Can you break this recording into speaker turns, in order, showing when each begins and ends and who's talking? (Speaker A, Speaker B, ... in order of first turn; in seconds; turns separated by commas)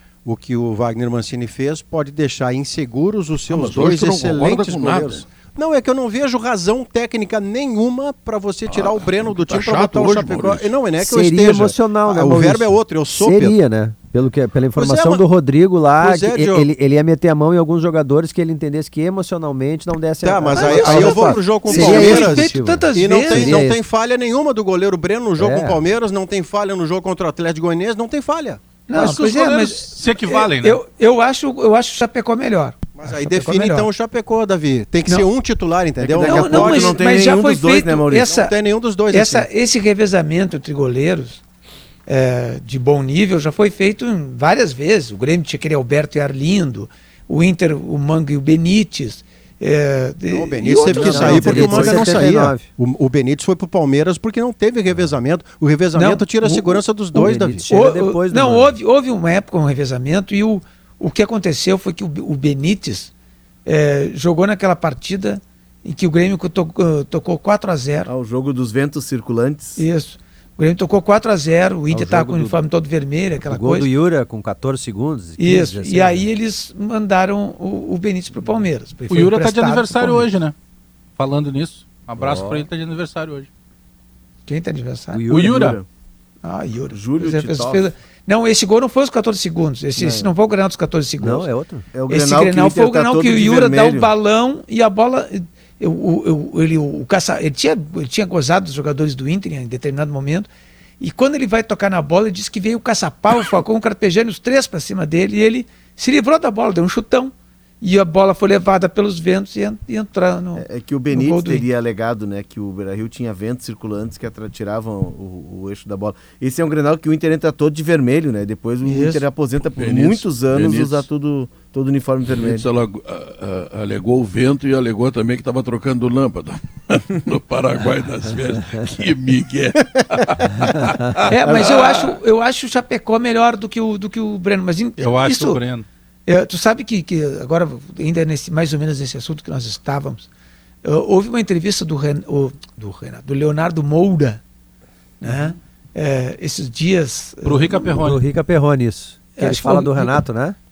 Speaker A: 0.2-13.6, Speaker B: 3.5-5.2, Speaker B: 8.7-10.7, Speaker C: 11.0-23.8, Speaker A: 14.7-15.2, Speaker A: 16.0-16.7, Speaker A: 20.2-28.6, Speaker D: 20.5-23.6, Speaker C: 25.4-25.8, Speaker D: 28.9-33.9, Speaker E: 28.9-30.8, Speaker A: 33.0-37.0, Speaker F: 36.0-38.3, Speaker D: 36.2-38.5, Speaker A: 38.2-39.5, Speaker D: 39.1-41.4, Speaker D: 42.1-52.0, Speaker A: 50.3-57.7, Speaker C: 50.9-52.7, Speaker F: 51.0-52.1, Speaker D: 55.9-56.8, Speaker C: 57.1-58.8, Speaker D: 57.7-63.1, Speaker D: 63.6-68.1, Speaker F: 68.0-69.8, Speaker D: 69.8-73.9, Speaker C: 71.9-72.6, Speaker C: 73.5-76.2, Speaker D: 75.4-80.3, Speaker E: 79.1-80.5, Speaker E: 81.2-83.5, Speaker C: 82.2-82.7, Speaker D: 84.5-85.2, Speaker C: 85.1-85.6, Speaker E: 85.3-85.8, Speaker F: 85.3-85.8, Speaker D: 86.4-91.5, Speaker F: 86.9-87.8, Speaker F: 90.0-90.3, Speaker C: 91.2-91.9, Speaker F: 91.9-94.1, Speaker D: 92.1-100.5, Speaker D: 101.0-111.7, Speaker F: 110.5-122.7, Speaker D: 118.9-119.2, Speaker B: 119.7-121.0, Speaker B: 122.3-131.3, Speaker D: 131.3-135.6, Speaker E: 135.0-135.8, Speaker D: 136.3-140.3, Speaker D: 140.8-144.4, Speaker D: 145.2-147.9, Speaker E: 147.4-148.2, Speaker C: 147.9-150.6, Speaker D: 149.3-150.2